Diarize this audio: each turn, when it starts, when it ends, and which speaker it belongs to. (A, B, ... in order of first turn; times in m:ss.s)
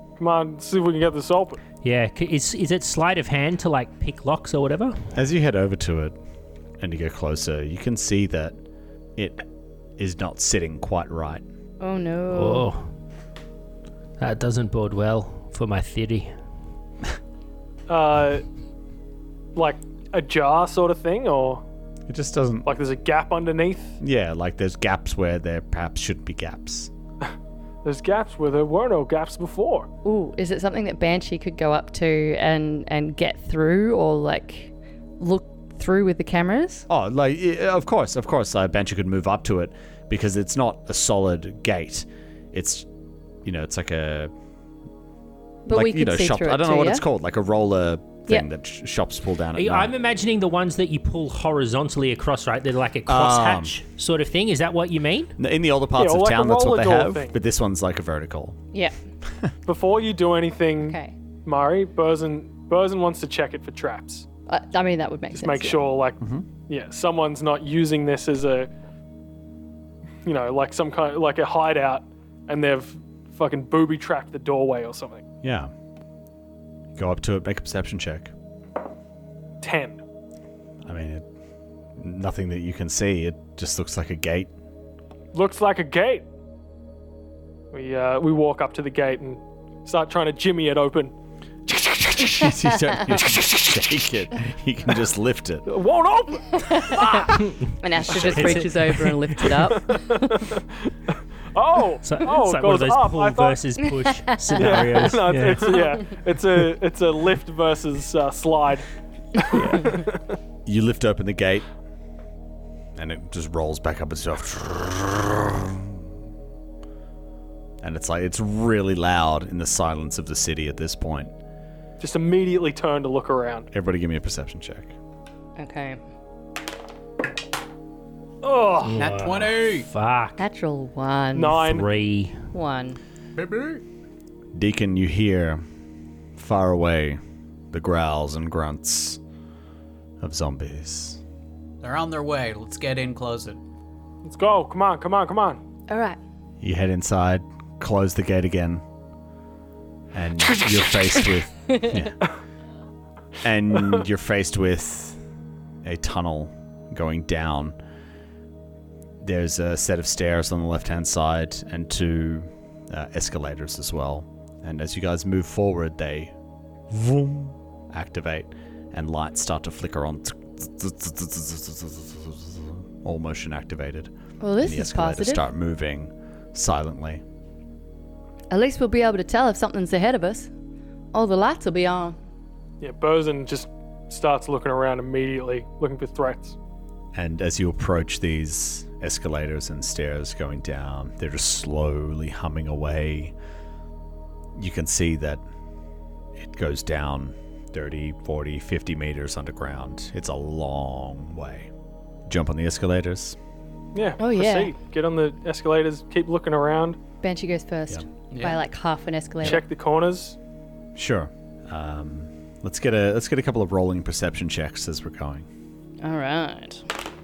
0:00.2-0:01.6 A
0:01.8-0:05.1 B
0:05.1-0:06.1 C
0:06.8-0:08.6 C
0:09.2-0:09.4 C
0:10.0-0:11.4 C
0:11.8-0:12.7 D
0:12.3-0:12.9 B
0:14.2-0:16.4 B
0:17.9-0:18.4 A
0:19.5-0:21.6 A
0:22.1-0:22.7 C
0:22.6-0:24.0 A
0:24.0-0:26.9 C
0:27.8-0:29.9 A
0:30.0-0:36.9 D
0:36.9-0:42.9 C
0:43.4-0:44.3 C
0:45.6-0:47.0 D
0:45.7-0:49.9 C
0:49.5-0:55.4 B
0:53.0-0:53.7 C
0:55.4-0:58.6 C
0:56.0-0:57.3 A
0:59.6-1:04.2 A
1:00.8-1:01.1 D
1:04.5-1:05.9 D
1:05.3-1:08.7 A
1:06.2-1:06.4 C
1:10.2-1:15.2 A
1:15.4-1:15.7 C
1:17.0-1:18.3 C
1:19.6-1:20.0 A
1:20.8-1:21.2 C
1:22.0-1:24.5 C
1:25.3-1:26.2 A
1:27.7-1:31.1 A
1:31.7-1:35.7 C
1:35.7-1:37.4 A
1:36.6-1:40.2 D
1:37.4-1:39.2 B
1:38.2-1:38.6 A
1:39.6-1:43.6 A
1:42.0-1:45.9 B
1:44.3-1:45.0 D
1:44.5-1:48.9 A
1:49.4-1:50.4 A
1:50.6-1:51.6 C
1:53.0-1:56.0 C
1:57.8-2:01.3 C
2:02.0-2:03.7 A
2:03.7-2:04.9 C
2:05.6-2:06.0 D
2:08.4-2:09.0 A
2:08.8-2:10.4 B
2:09.0-2:09.9 E
2:10.4-2:11.8 D
2:11.3-2:11.8 A
2:11.6-2:12.4 B
2:12.5-2:13.0 D
2:13.4-2:13.8 E
2:14.5-2:15.6 C
2:16.4-2:17.2 C
2:17.7-2:19.2 C
2:20.2-2:21.2 C
2:21.8-2:23.6 E
2:24.2-2:25.6 A
2:25.9-2:26.2 D
2:26.6-2:28.8 C
2:30.1-2:32.2 C
2:33.4-2:35.2 C
2:35.8-2:37.7 C
2:39.2-2:46.3 C
2:46.9-2:57.2 C
2:54.4-2:55.4 D
2:58.5-3:00.5 D
3:01.1-3:02.2 D
3:02.8-3:06.6 A
3:07.1-3:13.3 C
3:14.6-3:15.4 C
3:16.4-3:21.7 C
3:22.3-3:23.4 C
3:23.9-3:27.0 A
3:24.2-3:24.7 D
3:27.2-3:29.6 D
3:28.3-3:28.6 E
3:29.4-3:30.4 A
3:30.9-3:35.4 C
3:36.0-3:36.9 D